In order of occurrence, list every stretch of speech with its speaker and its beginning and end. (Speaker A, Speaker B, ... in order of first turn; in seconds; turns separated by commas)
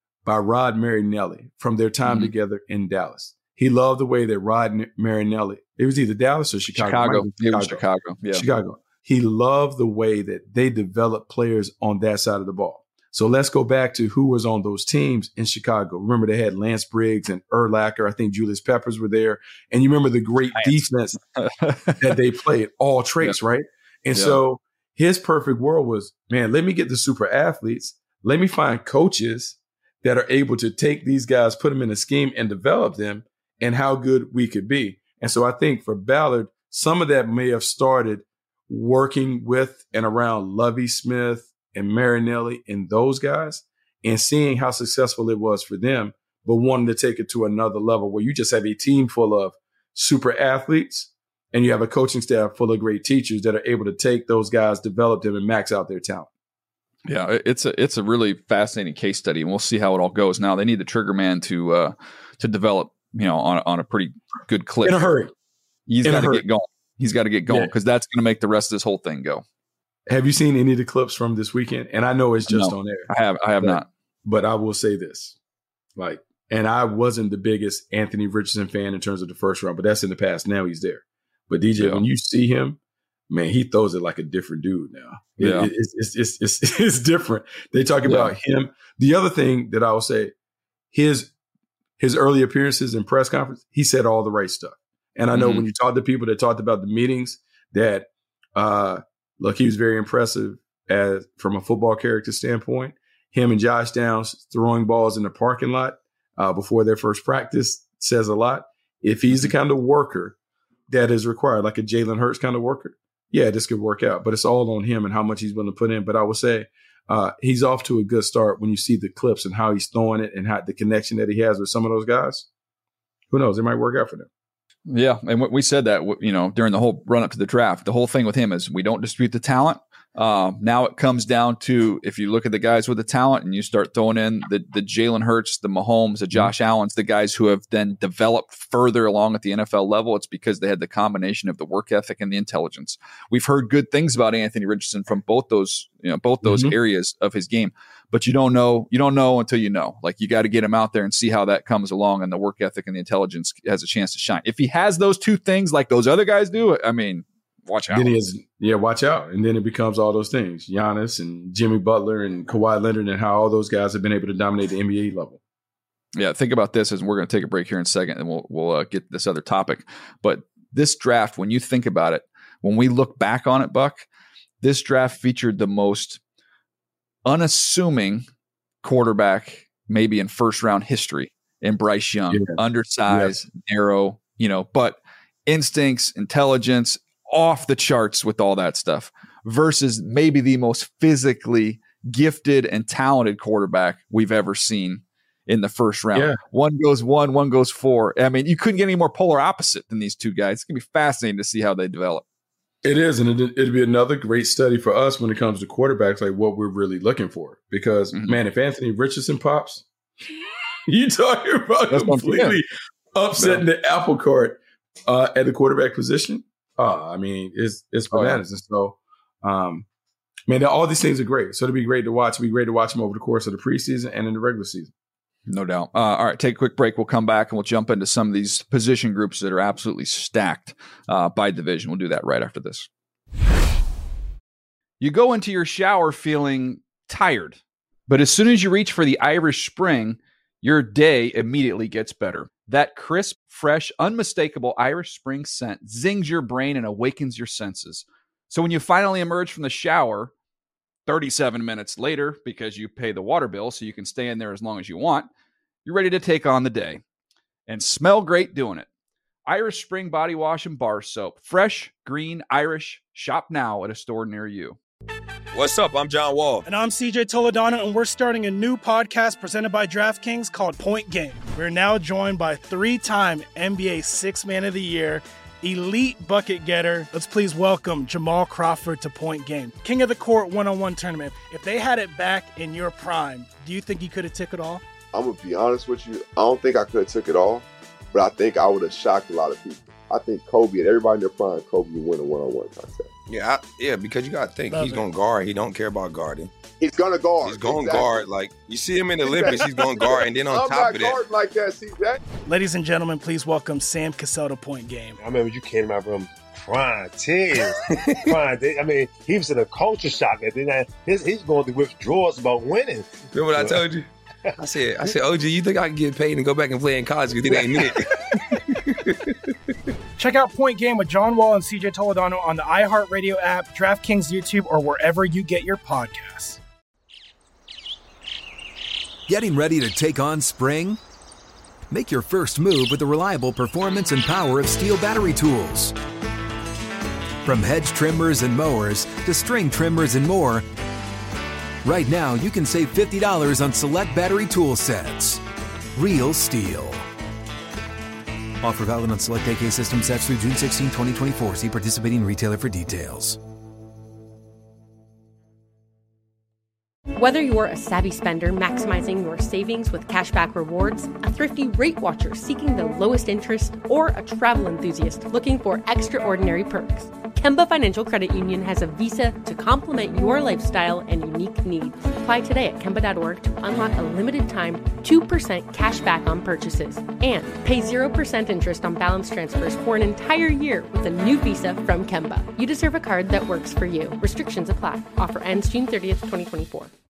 Speaker A: 0.2-21.2, Speaker B: 2.1-2.3, Speaker B: 6.7-8.5, Speaker B: 20.6-20.8, Speaker B: 21.4-22.0, Speaker A: 22.0-56.3, Speaker B: 24.1-24.4, Speaker B: 57.1-65.1, Speaker A: 64.8-65.3, Speaker B: 65.9-69.4, Speaker A: 66.0-66.4, Speaker A: 67.5-67.7, Speaker A: 70.1-73.1, Speaker B: 72.5-73.9, Speaker A: 73.6-75.4, Speaker A: 76.0-82.8, Speaker B: 81.8-82.0, Speaker A: 83.3-90.3, Speaker B: 85.4-85.7, Speaker B: 88.0-88.3, Speaker A: 90.9-91.3, Speaker A: 92.0-110.4, Speaker B: 95.3-95.6, Speaker A: 110.9-122.5, Speaker A: 123.3-124.3, Speaker B: 124.9-158.1, Speaker A: 146.4-146.8, Speaker A: 157.9-165.4, Speaker B: 166.2-174.1, Speaker B: 174.6-176.2, Speaker B: 177.3-178.2, Speaker B: 178.8-202.2, Speaker A: 182.3-183.4, Speaker A: 196.1-196.4, Speaker A: 202.8-209.8, Speaker A: 210.9-219.9, Speaker B: 211.9-212.6, Speaker B: 213.4-213.6, Speaker B: 218.1-218.4, Speaker A: 220.5-224.9, Speaker B: 225.5-232.9, Speaker B: 235.0-250.3, Speaker B: 251.1-255.3, Speaker B: 255.8-257.0, Speaker B: 257.7-258.9, Speaker B: 259.5-264.8, Speaker C: 265.5-266.6, Speaker D: 266.6-284.8, Speaker E: 285.1-293.1, Speaker C: 293.3-296.5, Speaker D: 294.7-295.1, Speaker E: 296.8-298.2, Speaker C: 297.4-301.2, Speaker E: 299.3-302.2, Speaker D: 302.5-305.2, Speaker F: 305.2-313.8, Speaker C: 313.3-314.1, Speaker C: 314.6-319.1, Speaker D: 320.2-326.6, Speaker G: 329.3-331.0, Speaker G: 331.9-335.9, Speaker G: 337.4-340.6, Speaker G: 341.8-345.4, Speaker G: 345.9-347.1, Speaker G: 348.6-353.4, Speaker H: 357.1-386.9